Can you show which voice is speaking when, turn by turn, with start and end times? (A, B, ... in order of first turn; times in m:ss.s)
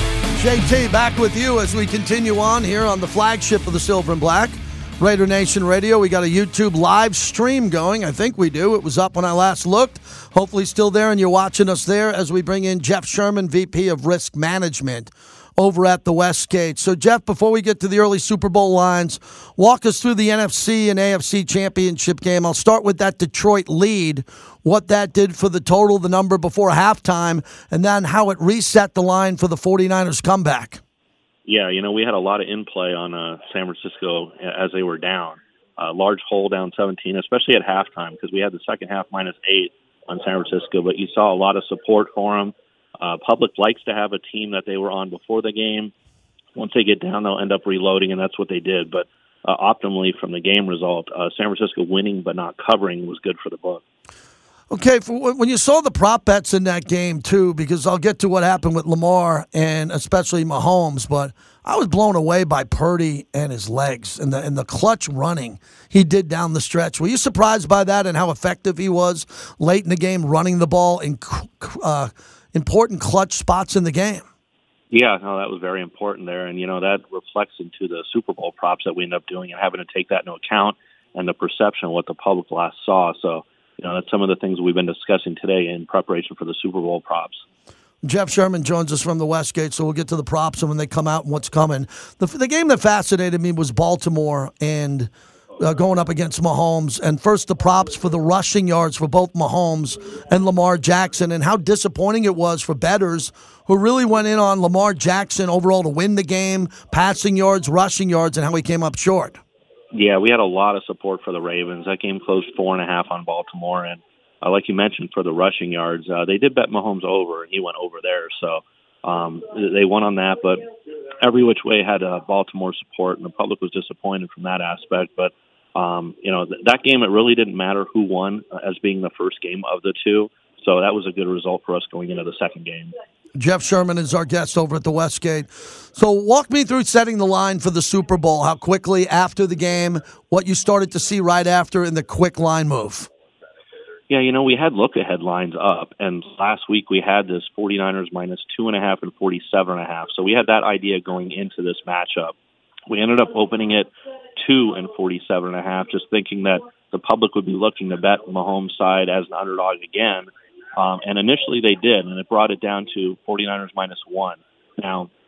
0:00.3-0:30.8 A
0:31.5-0:45.9 B
0:46.6-0:53.8 B
0:54.7-1:14.3 A
1:14.9-1:27.4 B
1:28.0-1:49.4 A
1:49.9-2:00.7 B
2:01.2-2:12.9 B
2:13.4-2:23.1 A
2:24.1-2:32.3 B
2:32.9-2:45.1 B